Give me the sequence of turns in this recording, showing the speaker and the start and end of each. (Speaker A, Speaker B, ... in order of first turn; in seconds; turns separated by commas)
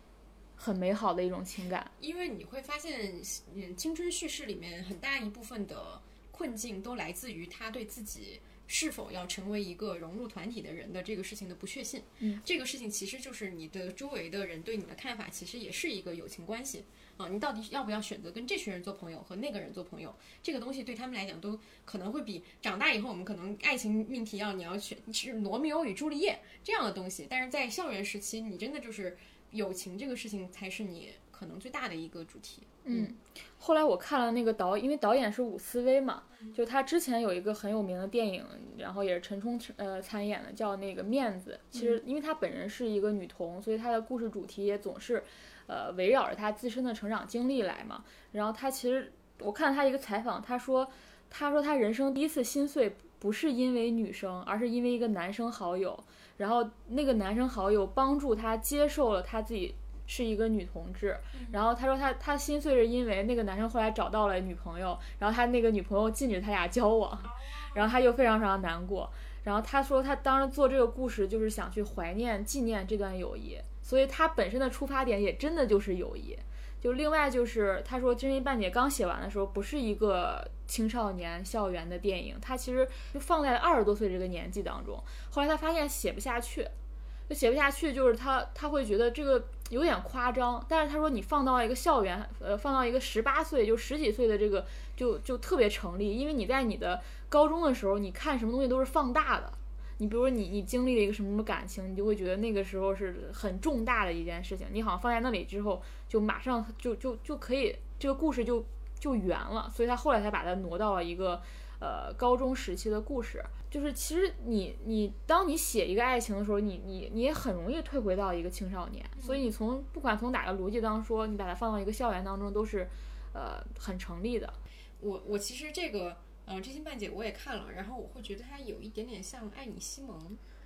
Speaker A: 0.6-1.9, Speaker B: 2.0-33.1, Speaker A: 32.8-86.7, Speaker B: 41.7-42.0, Speaker B: 61.3-61.6, Speaker B: 67.2-67.9, Speaker A: 87.3-124.6, Speaker B: 119.2-119.5, Speaker B: 125.0-130.4